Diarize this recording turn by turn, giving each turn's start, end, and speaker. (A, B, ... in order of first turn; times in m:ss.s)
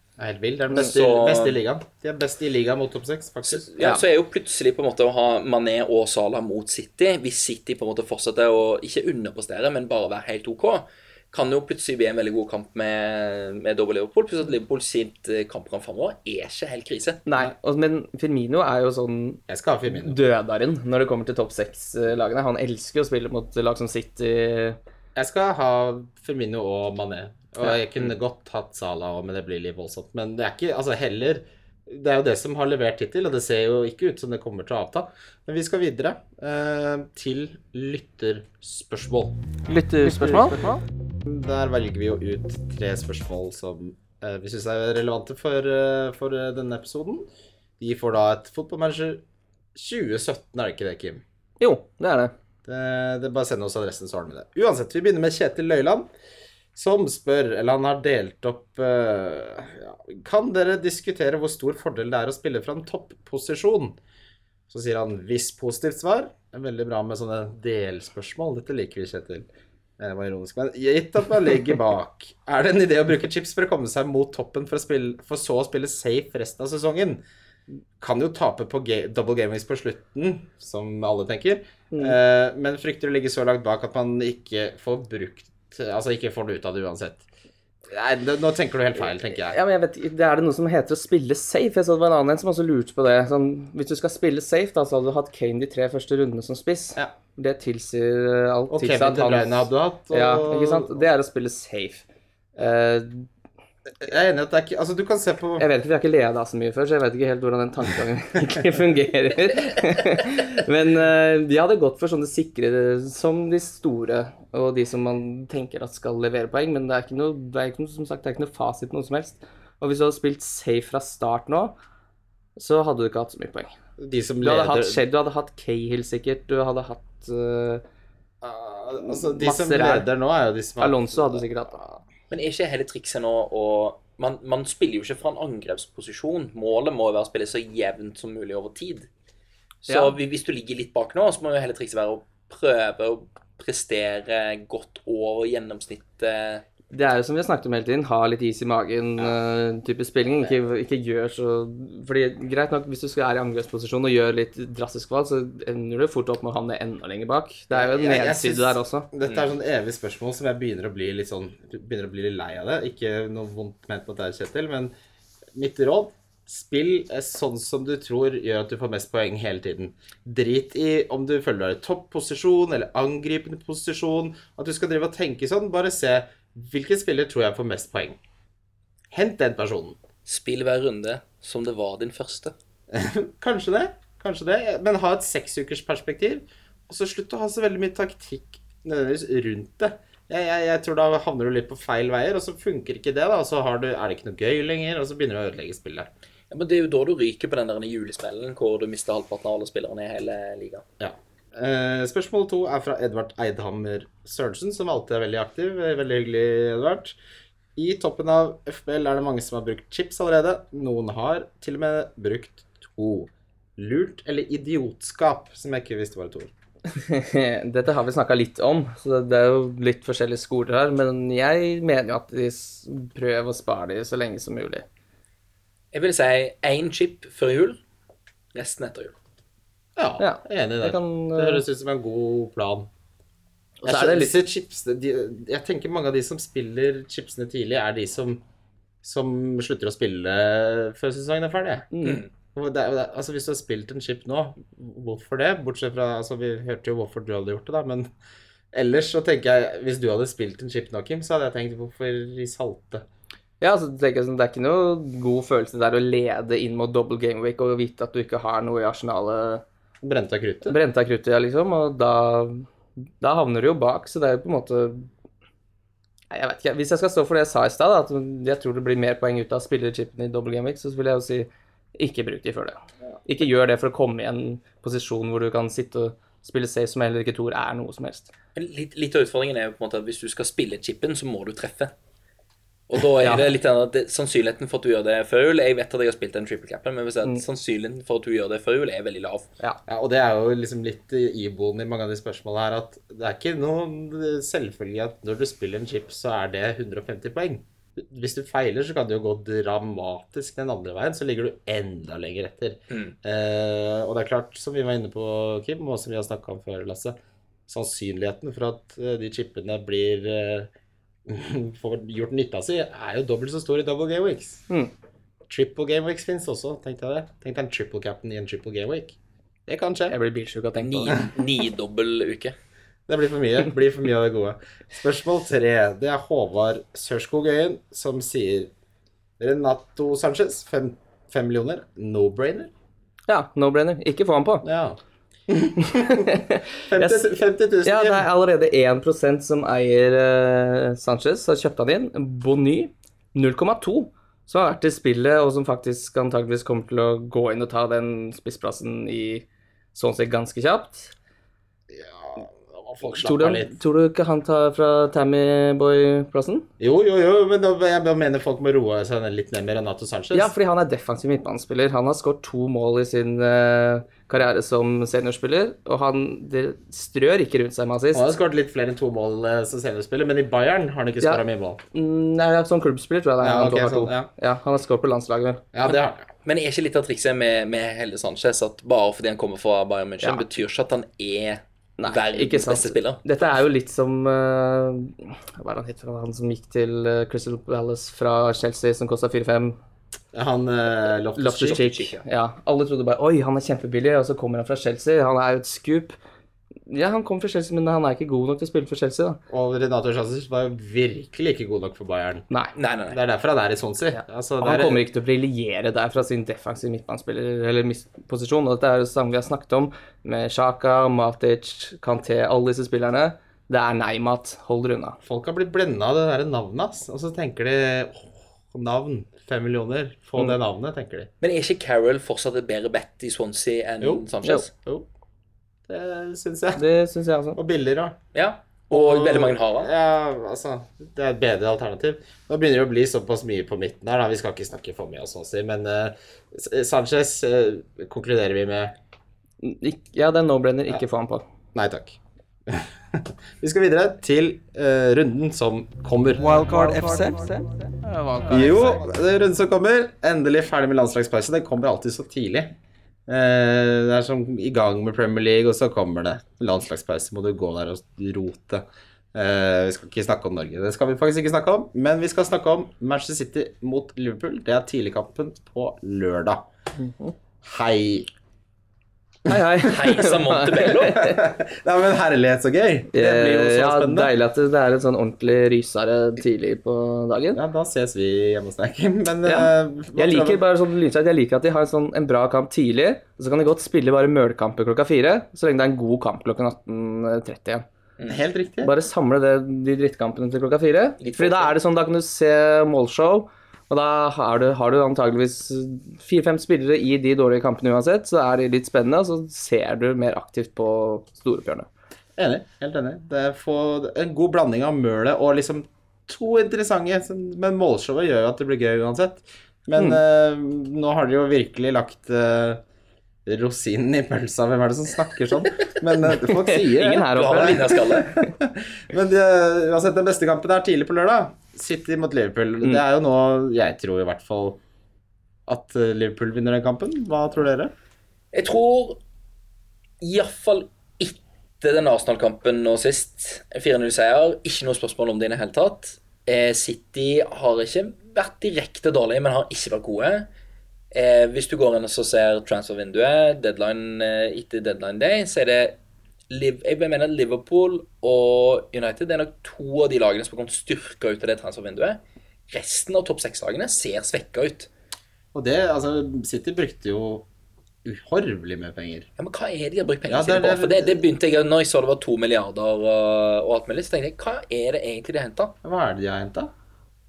0:00.2-0:03.7 A
0:00.8-0:01.6 B
0:03.5-0:17.2 B
0:17.3-0:24.8 C
0:19.5-0:20.2 A
0:25.2-0:39.4 A
0:39.7-0:40.6 C
0:40.0-0:47.3 A
0:47.8-0:49.2 A
0:49.8-0:51.2 A
0:51.6-0:52.3 C
0:52.7-0:56.1 A
0:56.8-1:04.0 A
1:04.7-1:09.5 A
1:10.0-1:17.2 A
1:18.0-1:27.2 A
1:21.9-1:22.2 C
1:27.9-1:29.6 A
1:29.3-1:42.0 C
1:38.7-1:41.0 A
1:42.6-1:43.3 C
1:44.0-1:45.7 A
1:45.6-2:01.8 C
2:02.6-2:03.7 C
2:04.0-2:05.0 A
2:04.4-2:07.8 C
2:08.4-2:11.9 A
2:09.0-2:10.1 C
2:10.8-2:11.8 C
2:12.3-2:19.1 B
2:19.8-2:26.6 B
2:19.9-2:20.1 C
2:26.9-2:39.1 C
2:37.7-2:44.9 A
2:45.6-2:58.2 A
2:59.1-3:00.0 A
3:00.3-3:02.5 B
3:02.9-3:16.1 A
3:16.5-3:20.8 B
3:21.0-3:27.2 A
3:27.8-3:36.5 A
3:36.9-3:44.8 C
3:45.9-3:47.8 B
3:48.5-3:49.2 B
3:50.0-3:52.9 A
3:50.2-3:51.6 C
3:53.8-3:54.4 C
3:53.8-3:58.4 A
3:59.0-4:01.9 A
4:01.9-4:02.2 C
4:02.0-4:02.3 B
4:02.5-4:08.1 A
4:08.7-4:13.0 A
4:13.6-4:19.6 C
4:20.0-4:20.8 A
4:20.7-4:22.7 C
4:23.2-4:25.1 C
4:26.3-4:38.3 C
4:38.6-4:41.9 B
4:42.9-4:49.5 B
4:49.9-5:07.2 A
5:02.9-5:03.2 B
5:07.7-5:10.7 A
5:11.3-5:14.6 A
5:15.5-5:20.2 A
5:20.1-5:21.2 C
5:20.8-5:22.6 B
5:23.1-5:28.7 A
5:29.4-5:32.7 A
5:33.3-5:34.6 C
5:34.6-5:38.3 A
5:35.9-5:37.2 C
5:37.8-5:51.1 C
5:51.9-5:53.8 A
5:53.0-5:56.7 C
5:56.8-6:00.5 A
6:00.3-6:08.3 C
6:08.1-6:11.8 A
6:11.2-6:15.6 C
6:13.4-6:14.3 A
6:15.7-6:16.3 A
6:15.8-6:23.2 B
6:22.0-6:29.8 C
6:30.3-6:31.9 A
6:31.4-6:36.2 C
6:31.5-6:32.2 B
6:36.9-6:39.4 C
6:39.5-6:42.5 A
6:42.8-6:43.2 B
6:43.1-6:45.0 A
6:44.6-6:55.2 C
6:55.2-7:01.3 A
7:01.4-7:04.7 B
7:04.0-7:05.1 A
7:05.9-7:06.8 A
7:06.8-7:07.6 C
7:07.6-7:08.2 A
7:08.3-7:09.9 B
7:08.9-7:18.9 A
7:19.6-7:21.4 C
7:21.7-7:26.5 A
7:26.4-7:28.8 D
7:28.1-7:29.0 C
7:28.5-7:32.8 A
7:33.3-7:46.6 A
7:47.0-7:47.3 C
7:47.6-7:48.3 A
7:49.5-7:51.4 C
7:49.5-7:49.9 A
7:49.8-7:51.4 B
7:50.9-7:54.3 A
7:53.1-7:57.6 C
7:57.6-8:00.6 A
7:59.4-8:07.9 C
8:08.3-8:09.0 A
8:08.8-8:21.9 C
8:11.2-8:11.8 B
8:22.4-8:32.8 A
8:33.5-8:44.8 A
8:36.5-8:38.0 C
8:37.0-8:38.4 B
8:45.7-8:47.9 A
8:48.5-8:49.2 B
8:50.2-9:00.5 B
9:01.1-9:06.0 B
9:06.5-9:14.9 B
9:15.5-9:17.5 A
9:18.0-9:19.3 A
9:19.4-9:25.8 B
9:20.3-9:21.2 A
9:25.8-9:26.7 A